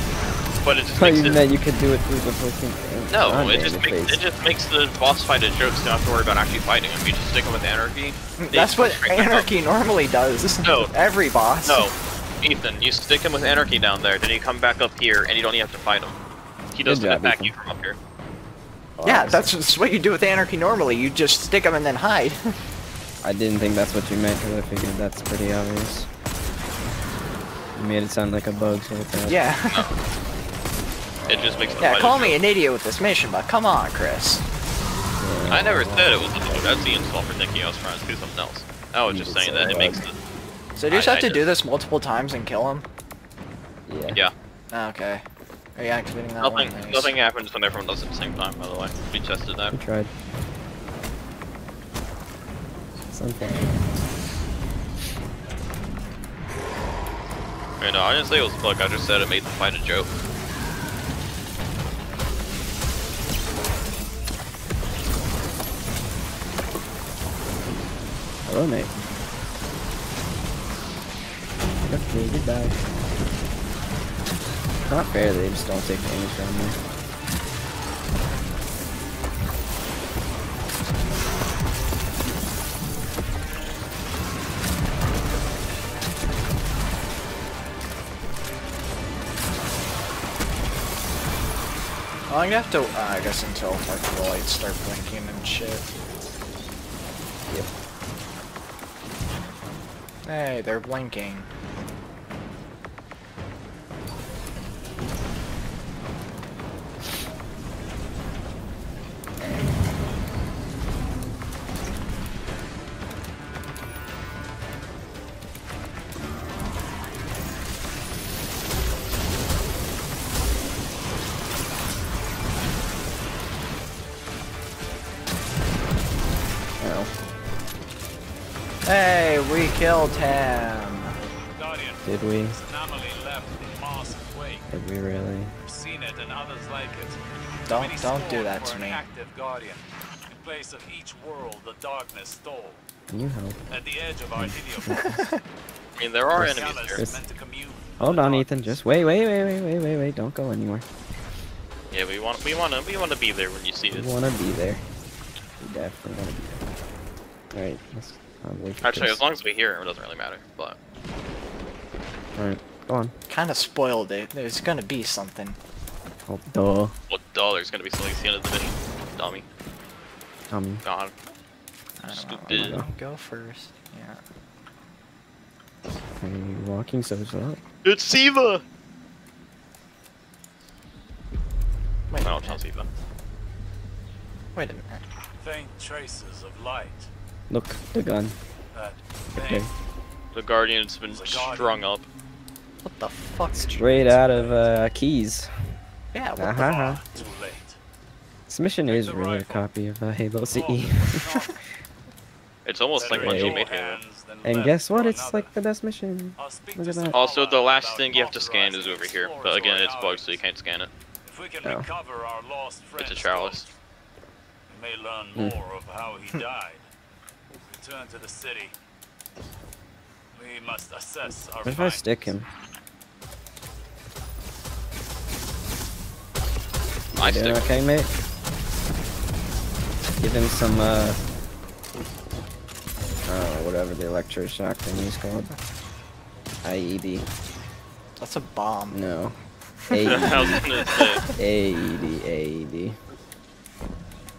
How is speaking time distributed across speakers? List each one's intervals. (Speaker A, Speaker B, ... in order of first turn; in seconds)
Speaker A: 0.6-1.4, 3.1-9.5, 10.6-10.9, 11.7-16.2, 16.7-18.0, 31.3-32.4, 35.5-40.1, 40.9-41.4, 46.4-49.8, 57.8-60.1, 146.0-147.0, 151.9-154.1, 158.8-160.8, 167.1-169.4, 170.8-171.1, 172.1-172.8, 177.8-178.6, 182.2-182.9, 190.3-192.1, 202.6-204.0, 207.1-210.9, 213.0-213.7, 227.2-227.7, 240.0-241.2
Speaker B: 0.9-4.2, 16.8-17.5, 19.0-19.5, 23.2-26.1, 27.7-29.4, 31.2-31.9, 35.2-36.1, 39.1-40.1, 43.9-44.2, 49.7-50.1, 53.1-53.9, 68.5-68.9, 71.8-72.8, 74.8-76.8, 126.8-127.1, 132.1-132.6, 134.7-135.5, 143.1-143.6, 144.4-145.2, 146.3-147.2, 148.0-150.8, 153.9-154.8, 155.6-156.6, 157.5-159.2, 162.3-163.1, 166.3-166.9, 170.5-170.8, 172.5-172.9, 176.2-177.6, 187.5-188.3, 189.3-189.7, 193.7-195.5, 196.4-197.0, 198.5-201.3, 203.1-203.6, 204.4-207.2, 211.6-211.9, 221.6-222.5, 227.1-228.1, 230.2-231.2, 233.2-235.5, 236.6-237.3, 238.9-239.3, 239.9-240.6, 241.3-243.0
Speaker C: 8.4-11.9, 19.0-22.5, 29.2-29.9, 31.8-34.4, 40.8-42.9, 44.7-45.2, 45.8-47.1, 92.3-95.9, 100.2-101.5, 128.8-131.2, 137.7-139.0, 145.1-145.4, 163.3-165.6, 172.0-174.2, 182.1-182.6, 184.5-185.0, 192.8-194.2, 196.1-196.6, 238.2-239.0, 239.9-241.1
Speaker D: 131.5-134.7, 135.6-142.8, 143.7-145.3, 146.4-148.8, 185.4-187.1, 188.7-189.7, 191.1-191.8, 193.9-194.8, 196.4-197.8, 198.9-199.7, 200.4-201.6, 202.9-205.5, 206.4-210.4, 211.2-213.7, 214.7-216.9, 217.6-218.7, 220.3-222.3